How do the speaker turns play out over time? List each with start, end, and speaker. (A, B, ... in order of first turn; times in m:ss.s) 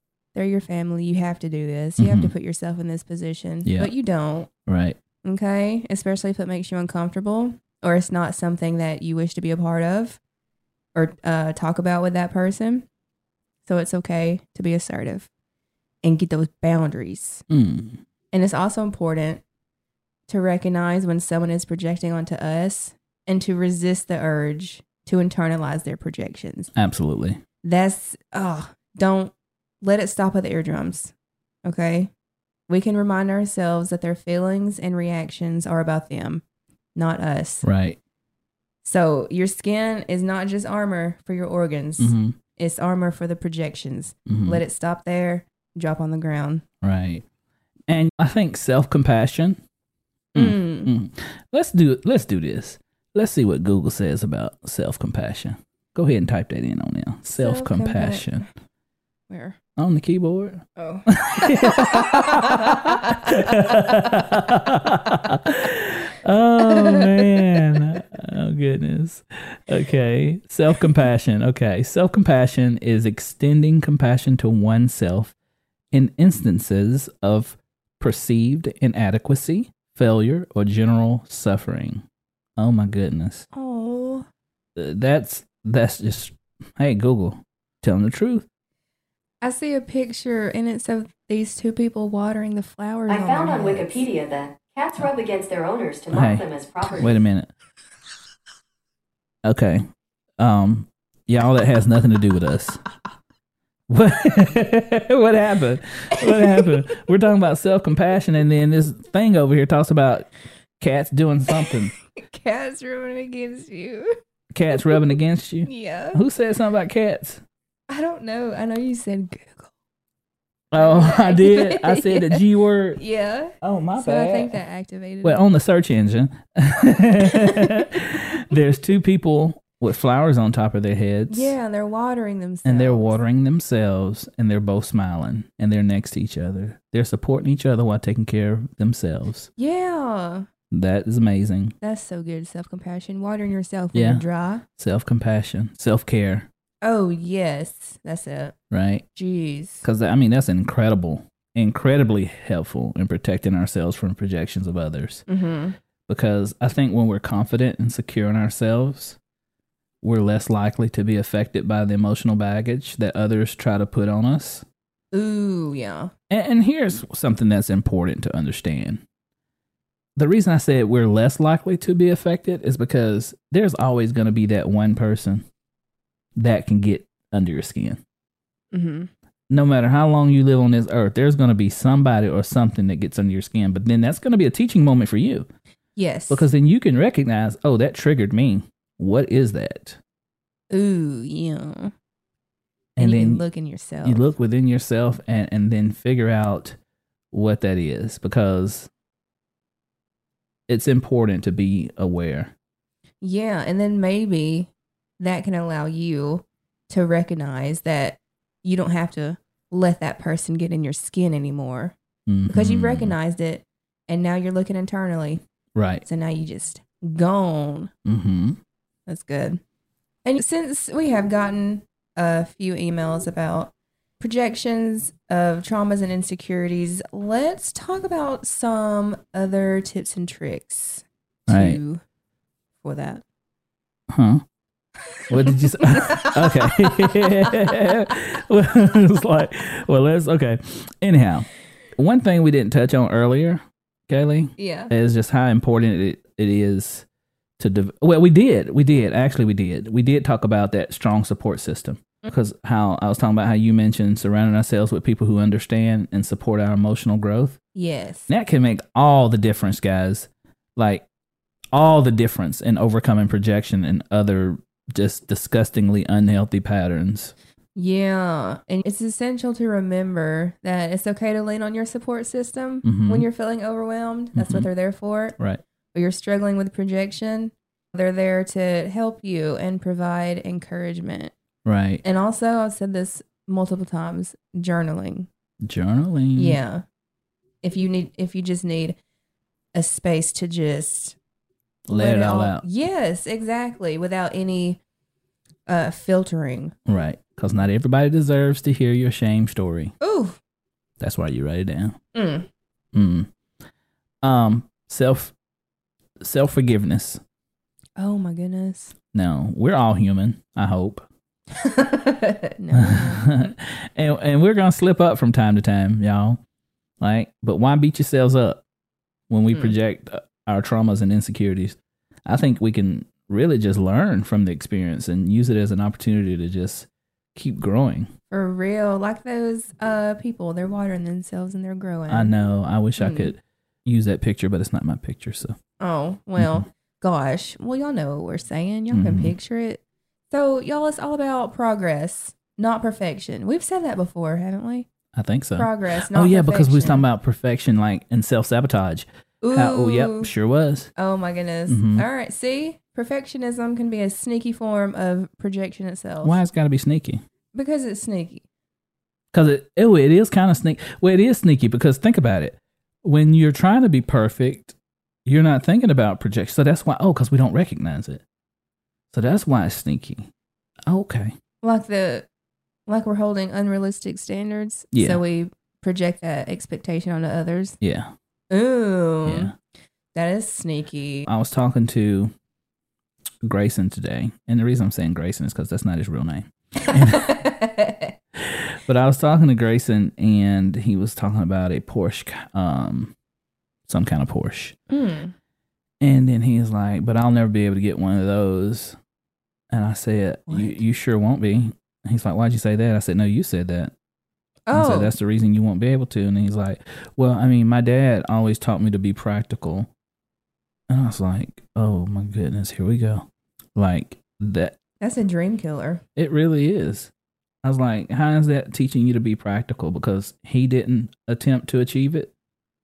0:00.3-0:04.5 A
0:02.0-0:02.3 B
0:03.6-0:03.9 B
0:04.7-0:05.0 B
0:05.2-0:10.2 A
0:11.0-0:12.9 A
0:13.7-0:15.3 A
0:16.0-0:17.4 A
0:17.5-0:18.0 B
0:18.3-0:19.4 A
0:20.3-0:26.7 A
0:26.8-0:27.4 B
0:27.6-0:31.1 A
0:31.6-0:32.1 A
0:32.7-0:36.4 A
0:37.0-0:37.6 A
0:37.6-0:38.0 B
0:38.8-0:46.6 A
0:42.0-0:42.4 B
0:44.3-0:44.6 B
0:46.8-0:47.2 B
0:47.9-0:49.6 B
0:50.4-0:50.9 A
0:50.4-0:58.5 B
0:57.4-0:58.4 A
0:59.3-0:59.6 A
0:59.8-1:15.4 B
1:00.8-1:04.1 A
1:06.7-1:07.4 A
1:15.9-1:22.0 B
1:22.6-1:23.5 B
1:23.5-1:24.3 A
1:24.8-1:28.5 B
1:29.4-1:34.0 A
1:33.1-1:37.1 C
1:36.1-1:37.5 B
1:39.4-1:39.9 B
1:40.4-1:42.8 B
1:43.9-1:50.3 B
1:46.2-1:46.8 A
1:50.8-1:51.9 B
1:51.7-1:54.2 A
1:54.5-1:57.4 B
1:55.7-1:56.2 A
1:57.9-1:59.7 A
2:00.7-2:03.0 B
2:00.8-2:02.4 A
2:03.0-2:05.4 A
2:03.6-2:04.6 B
2:05.2-2:11.5 B
2:07.2-2:08.0 A
2:11.3-2:13.2 A
2:12.6-2:19.5 B
2:19.6-2:20.5 A
2:20.7-2:21.8 B
2:21.8-2:24.6 A
2:23.9-2:24.2 B
2:24.8-2:26.5 B
2:26.8-2:28.6 A
2:28.7-2:29.0 B
2:29.2-2:29.8 A
2:29.8-2:35.3 B
2:35.3-2:35.8 A
2:36.1-2:39.2 B
2:40.0-2:44.6 B
2:45.1-2:46.1 A
2:46.3-2:49.0 B
2:50.2-2:55.5 B
2:56.4-2:58.0 B
2:58.7-2:59.1 A
2:59.5-3:05.5 B
3:06.0-3:06.5 A
3:06.3-3:10.0 B
3:10.7-3:11.9 A
3:13.0-3:13.4 B
3:13.0-3:14.3 A
3:14.0-3:16.8 B
3:17.3-3:18.9 B
3:20.7-3:22.5 B
3:23.2-3:32.0 A
3:32.3-3:33.2 B
3:32.5-3:35.4 A
3:35.8-3:36.0 B
3:36.0-3:37.9 A
3:38.1-3:38.6 B
3:39.1-3:39.6 A
3:40.2-3:52.0 A
3:51.5-3:51.8 B
3:52.8-3:53.2 A
3:54.1-3:54.4 B
3:55.3-4:07.1 B
3:55.4-3:57.8 A
4:04.6-4:04.9 A
4:07.6-4:17.6 B
4:17.8-4:18.3 A
4:18.3-4:21.0 B
4:21.7-4:27.4 B
4:27.8-4:35.4 A
4:32.8-4:33.3 B
4:34.4-4:34.7 B
4:35.9-4:41.3 A
4:41.7-4:42.0 B
4:42.0-4:45.3 A
4:45.6-4:46.6 B
4:46.4-4:46.8 A
4:47.6-4:49.0 A
4:49.7-4:51.2 A
4:51.9-4:52.6 B
4:51.9-4:54.8 A
4:55.7-4:56.8 A
4:56.9-4:59.9 B
5:00.0-5:00.4 A
5:01.0-5:02.0 B
5:02.2-5:02.5 A
5:02.9-5:03.3 B
5:04.2-5:05.3 B
5:06.2-5:07.2 B
5:08.0-5:09.0 A
5:09.1-5:11.1 B
5:11.5-5:13.5 A
5:12.7-5:16.4 B
5:17.0-5:18.6 B
5:19.3-5:28.1 B
5:28.3-5:32.3 A
5:32.1-5:35.6 B
5:33.0-5:33.3 A
5:35.8-5:44.9 A
5:36.4-5:36.6 B
5:38.9-5:39.3 B
5:45.1-5:50.9 B
5:45.6-5:47.0 A
5:49.4-5:50.3 A
5:51.0-5:56.4 A
5:51.7-5:52.1 B
5:56.2-5:57.2 B
5:57.5-5:58.4 A
5:59.3-6:04.8 B
6:05.3-6:08.2 B
6:09.1-6:10.3 B
6:10.9-6:11.4 B
6:11.6-6:12.3 A
6:12.9-6:17.8 A
6:14.9-6:15.2 B
6:17.8-6:18.1 B
6:18.5-6:19.5 A
6:19.2-6:19.5 B
6:20.1-6:21.3 A
6:21.3-6:22.3 B
6:23.4-6:27.5 B
6:26.9-6:28.1 A
6:28.4-6:33.1 B
6:33.9-6:34.8 B
6:34.9-6:35.3 A
6:36.0-6:39.0 B
6:39.7-6:43.9 B
6:40.5-6:40.8 A
6:44.7-6:45.1 A
6:44.7-6:49.9 B
6:50.9-6:54.8 B
6:55.0-6:56.0 A
6:56.2-6:57.1 B
6:57.6-7:02.3 B